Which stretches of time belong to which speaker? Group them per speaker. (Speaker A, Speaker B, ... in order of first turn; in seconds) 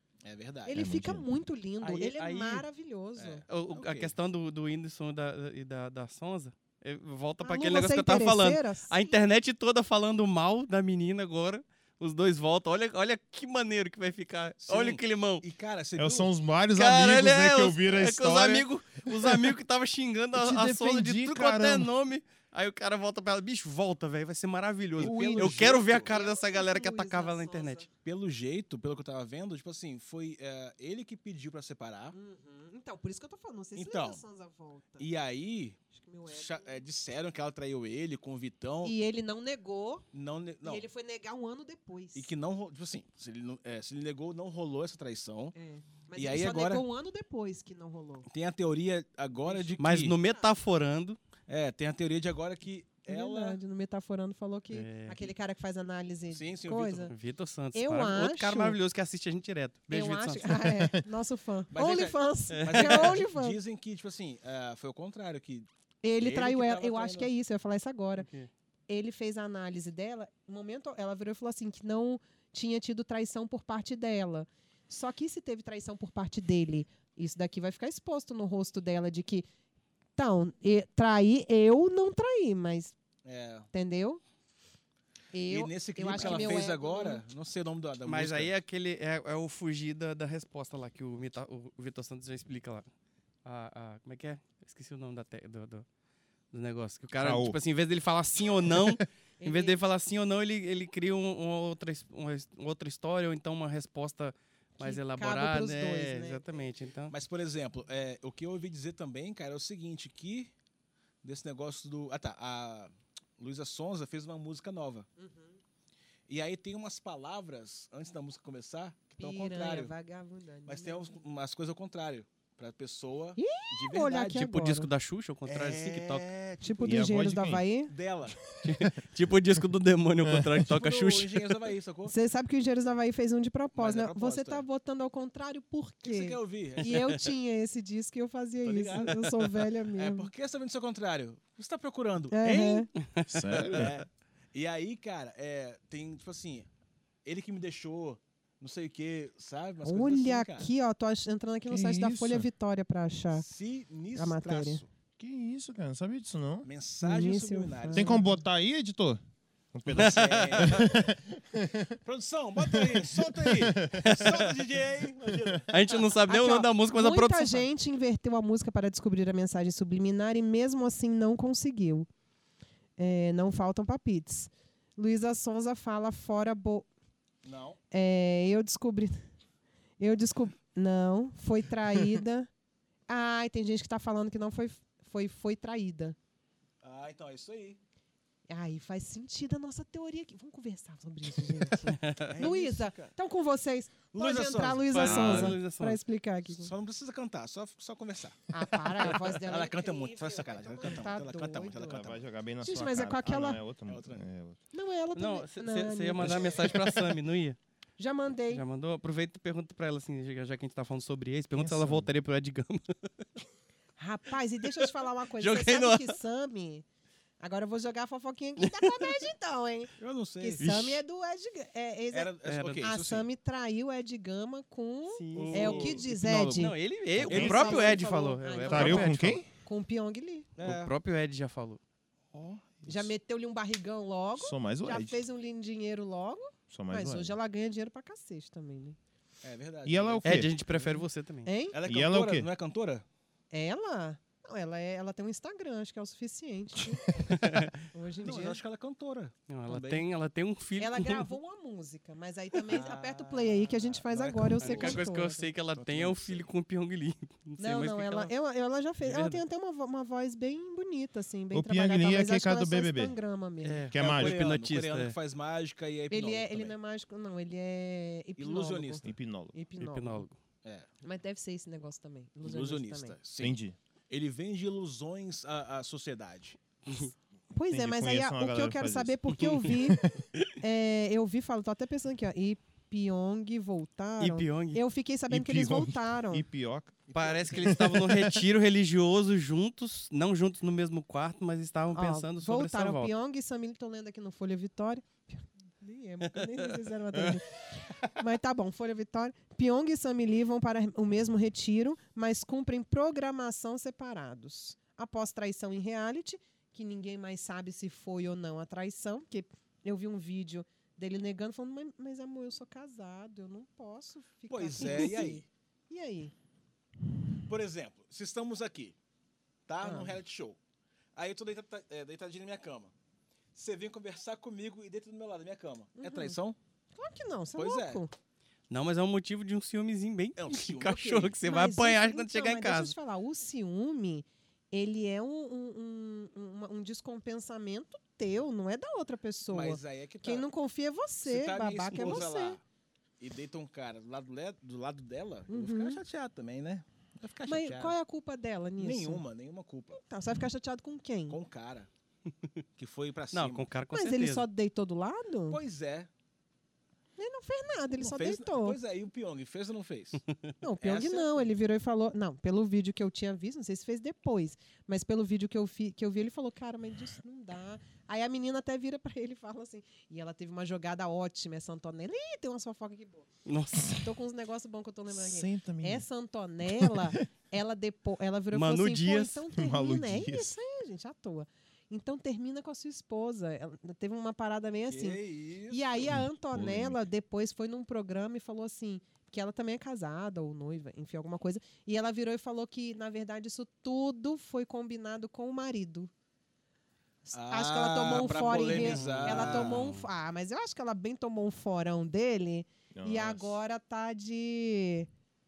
Speaker A: 0.2-0.8, 3.2-4.1, 14.6-16.3, 25.0-26.1, 28.0-32.1, 33.8-34.2, 35.0-39.0, 40.1-40.9, 42.1-45.5, 46.1-46.9, 48.3-50.1, 51.5-53.6, 56.3-57.1, 61.7-67.3, 83.2-83.7, 85.5-88.5, 107.1-110.5, 111.2-115.1, 116.3-119.9, 120.7-124.5, 125.5-127.0, 127.9-128.4, 130.7-132.1, 133.7-134.7, 136.0-136.9, 138.6-139.3, 139.9-142.9, 143.7-146.7, 147.2-150.7, 153.3-154.9, 156.7-158.3, 159.9-161.0, 162.0-166.0, 177.4-177.8, 186.8-187.8, 192.2-193.2, 194.1-195.6, 196.6-202.2, 203.9-204.3, 220.0-220.9, 222.1-223.3, 225.3-226.0, 227.3-228.0, 230.6-230.9, 239.4-240.9, 241.7-243.1, 248.2-250.1, 252.7-255.0, 255.7-256.5, 263.9-266.8, 268.4-269.1, 272.4-273.6, 274.1-276.6, 287.1-287.7, 314.5-315.5, 317.5-319.0, 319.7-320.6, 321.1-322.9, 323.5-326.6, 327.6-328.1, 330.4-331.4, 339.5-340.5, 341.2-342.6, 343.2-348.0, 348.8-350.0, 351.3-351.9, 352.8-353.7, 355.5-356.1, 358.0-360.2, 360.8-361.5, 384.9-386.1, 397.3-399.8
Speaker B: 0.7-3.4, 7.4-9.2, 25.9-27.9, 32.1-35.1, 35.9-36.8, 38.8-40.1, 40.6-42.3, 45.5-48.3, 49.5-50.5, 53.1-57.1, 57.7-58.8, 59.9-63.6, 66.0-68.3, 68.9-79.5, 80.2-83.0, 83.7-84.2, 85.3-87.2, 99.4-99.8, 104.8-106.7, 115.2-115.6, 119.2-121.2, 123.4-124.9, 126.6-127.9, 132.1-140.3, 142.3-142.9, 149.8-153.5, 154.2-154.8, 157.0-158.2, 166.2-172.1, 173.0-176.9, 177.9-179.2, 180.0-182.5, 183.1-186.2, 188.5-196.7, 198.5-202.1, 202.6-203.6, 204.7-206.9, 208.0-208.6, 214.0-216.8, 217.4-226.7, 227.2-230.5, 232.9-239.0, 241.4-241.8, 243.5-247.0, 247.9-248.6, 250.8-255.5, 257.6-263.9, 266.1-270.3, 271.0-273.2, 277.5-286.5, 291.9-297.5, 298.1-316.3, 319.8-320.2, 326.0-326.4, 327.0-328.1, 331.4-342.6, 345.5-346.0, 347.5-349.2, 349.9-351.4, 353.9-355.6, 357.2-358.8, 360.6-373.3, 373.9-396.1, 397.2-405.1
Speaker C: 0.7-1.3, 16.0-19.5, 20.3-21.9, 25.0-25.8, 60.7-61.0, 97.2-97.6, 126.8-127.7, 128.6-128.9, 130.2-130.7, 143.3-144.0, 151.7-152.5, 155.2-156.7, 157.9-159.2, 159.7-162.0, 162.7-164.1, 201.9-204.6, 211.6-212.1, 226.0-227.7, 228.7-229.4, 232.4-233.1, 234.4-235.2, 236.7-237.4, 239.8-240.5, 241.8-242.5, 246.8-247.7, 261.5-263.1, 263.9-264.5, 269.0-269.5, 273.4-273.8, 277.7-279.4, 285.3-288.4, 375.1-376.1, 376.8-377.2, 379.5-380.5, 386.1-387.0, 402.9-403.6
Speaker D: 1.8-2.6, 3.5-15.4, 16.7-27.9, 49.8-51.2, 54.7-55.2, 57.1-60.7, 62.5-63.1, 68.2-68.5, 86.1-86.6, 88.0-92.9, 93.5-95.8, 96.5-107.2, 124.3-126.3, 128.6-131.6, 143.0-143.8, 159.9-160.9, 164.0-164.5, 165.7-167.7, 191.8-192.4, 194.9-196.0, 205.2-207.6, 208.5-213.1, 214.8-216.2, 218.6-219.1, 220.6-220.9, 222.4-222.9, 225.1-229.4, 230.6-231.8, 240.2-241.5, 247.3-247.8, 249.5-251.3, 254.6-258.3, 259.0-259.4, 263.6-265.2, 269.8-270.3, 276.9-277.1, 279.4-280.4, 284.2-284.8, 287.1-293.1, 328.7-332.9, 353.3-354.5, 373.5-374.0, 378.5-379.4, 398.7-400.1